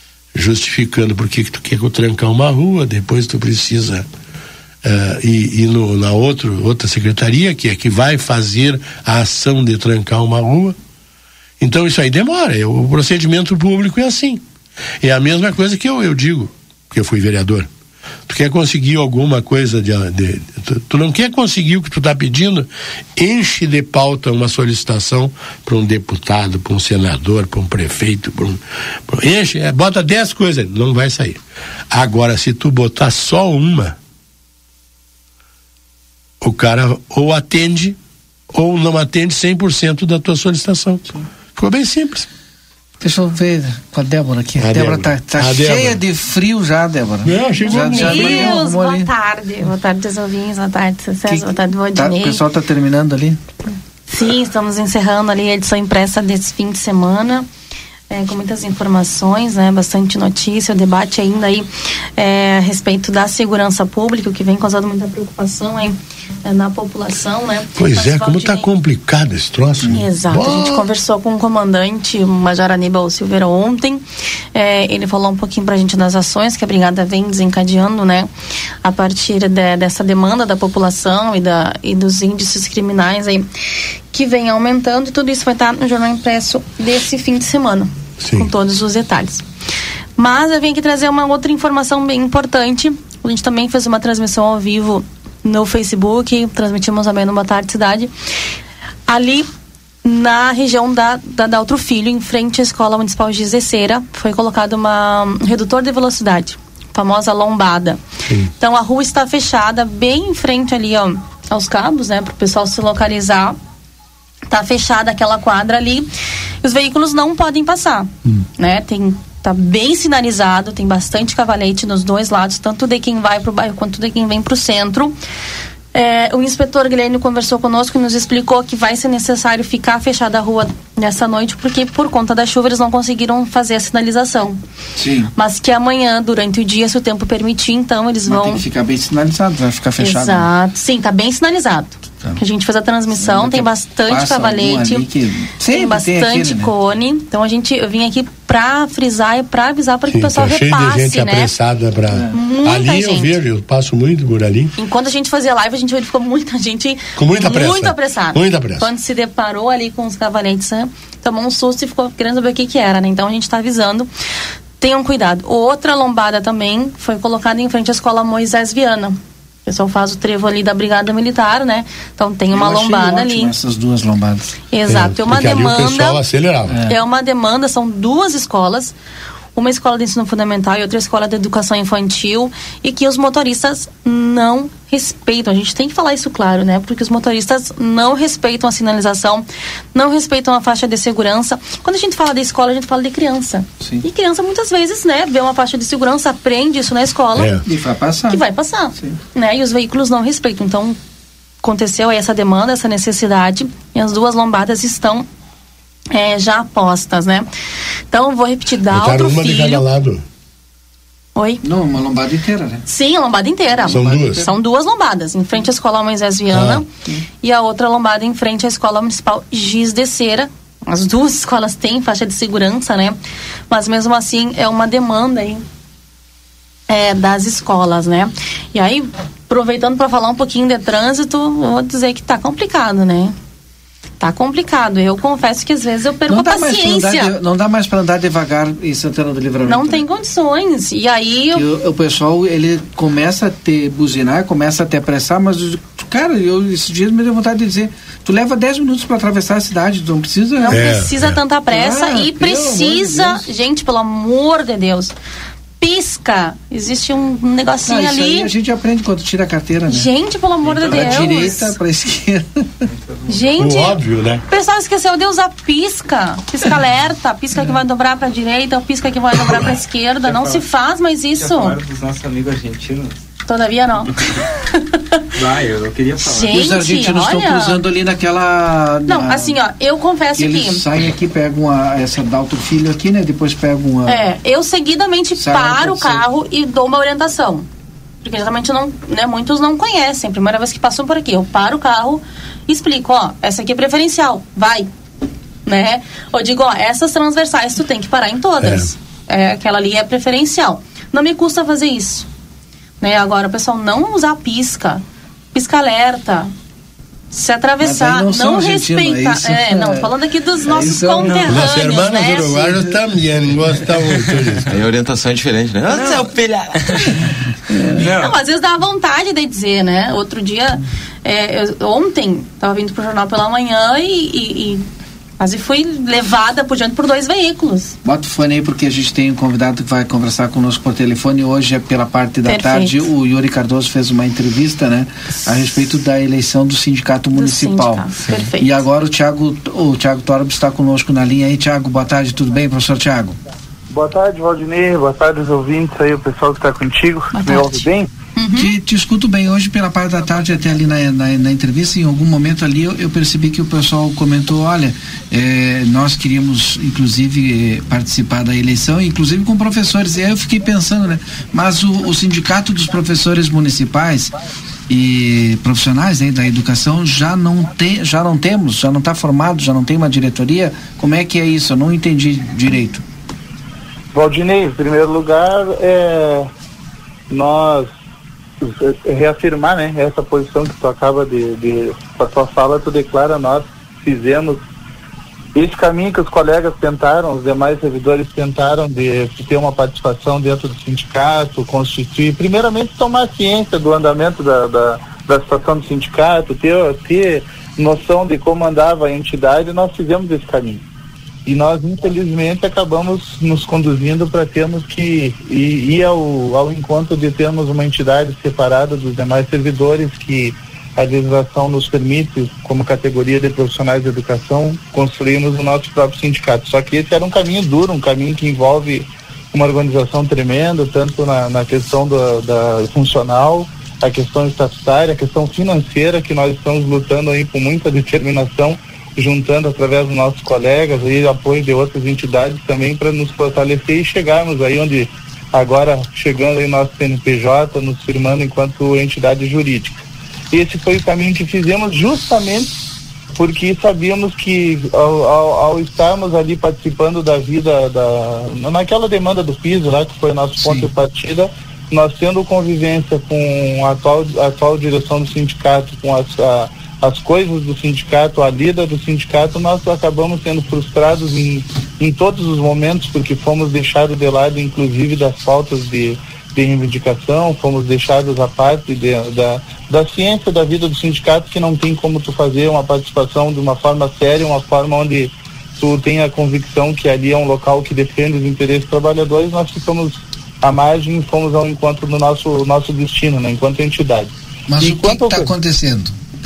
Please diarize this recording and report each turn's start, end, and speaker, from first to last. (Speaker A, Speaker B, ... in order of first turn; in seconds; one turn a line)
Speaker A: 0.3-4.1
Speaker A: 4.8-10.8
Speaker A: 11.6-14.4
Speaker A: 15.0-17.7
Speaker A: 18.3-34.0
Speaker A: 36.4-38.0
Speaker A: 38.5-42.3
Speaker B: 43.0-49.1
Speaker A: 44.6-46.0
Speaker A: 47.2-48.6
Speaker C: 47.6-52.4
Speaker B: 51.3-53.4
Speaker C: 54.1-57.5
Speaker C: 58.1-68.7
Speaker A: 67.8-70.9
Speaker C: 69.9-78.3
Speaker C: 78.8-83.5
Speaker C: 84.1-89.4
Speaker A: 88.2-88.5
Speaker C: 90.2-98.1
Speaker C: 99.1-99.5
Speaker C: 100.0-108.0
Speaker C: 108.6-113.6
Speaker C: 114.5-116.1
Speaker C: 116.6-125.2
Speaker C: 125.9-134.6
Speaker B: 135.0-135.3
Speaker C: 135.4-138.6
Speaker B: 138.3-140.5
Speaker C: 140.0-145.1
Speaker B: 143.1-146.7
Speaker C: 145.7-151.5
Speaker A: 150.1-154.7
Speaker B: 152.1-152.4
Speaker C: 152.3-153.4
Speaker C: 154.8-164.1
Speaker A: 157.2-158.9
Speaker C: 164.8-173.5
Speaker B: 172.5-174.6
Speaker C: 174.7-176.2
Speaker A: 174.9-176.8
Speaker B: 176.7-177.0
Speaker C: 176.8-178.9
Speaker C: 179.6-197.5
Speaker B: 193.8-194.1
Speaker A: 197.3-197.6
Speaker B: 197.7-198.4
Speaker C: 198.3-201.0
Speaker C: 201.6-205.3
Speaker C: 206.1-207.5
Speaker C: 208.1-209.8
Speaker A: 208.9-210.2
Speaker C: 211.4-211.6
Speaker B: 211.6-212.8
Speaker C: 212.9-216.9
Speaker B: 213.8-214.5
Speaker A: 213.9-214.5
Speaker A: 216.5-216.8
Speaker C: 217.4-223.2
Speaker C: 223.7-225.6
Speaker C: 226.9-233.3
Speaker C: 234.2-237.3
Speaker B: 236.3-240.0
Speaker C: 239.6-241.7
Speaker B: 241.5-250.9
Speaker C: 250.6-255.1
Speaker A: 250.7-251.4
Speaker B: 251.7-253.4
Speaker C: 255.8-258.5
Speaker B: 257.9-260.1
Speaker C: 259.9-261.8
Speaker D: 260.6-261.5
Speaker B: 260.8-262.8
Speaker D: 262.9-263.6
Speaker C: 263.3-271.8
Speaker A: 263.6-264.4
Speaker D: 270.2-270.7
Speaker D: 271.4-273.2
Speaker C: 273.5-274.1
Speaker C: 274.7-275.2
Speaker D: 275.4-276.6
Speaker C: 276.3-277.8
Speaker B: 276.5-279.6
Speaker C: 279.1-280.9
Speaker B: 280.4-284.2
Speaker C: 284.1-287.7
Speaker B: 285.4-286.2
Speaker C: 288.2-294.9
Speaker C: 295.7-302.3
Speaker A: 298.6-298.9
Speaker C: 303.0-305.0
Speaker C: 305.5-306.5
Speaker C: 307.3-312.8
Speaker B: 307.8-310.1
Speaker B: 310.6-311.5
Speaker D: 311.3-311.6
Speaker A: 311.5-314.7
Speaker D: 314.1-314.6
Speaker E: 314.7-316.7
Speaker D: 315.9-317.2
Speaker B: 317.7-318.0
Speaker D: 317.9-318.4
Speaker C: 318.0-324.8
Speaker C: 325.4-327.9
Speaker B: 328.0-338.1
Speaker C: 332.4-333.1
Speaker C: 337.3-338.9
Speaker D: 338.2-338.5
Speaker B: 338.6-343.4
Speaker F: 343.9-348.1
Speaker C: 347.3-348.7
Speaker B: 348.5-364.3
Speaker B: 364.9-373.0
Speaker F: 374.1-376.5
Speaker F: 377.3-377.9
Speaker F: 378.6-384.6
Speaker F: 385.6-400.8
Speaker F: 401.5-440.0
Speaker F: 440.5-442.7
Speaker F: 443.3-485.5
Speaker B: 450.6-450.9
Speaker B: 484.7-486.2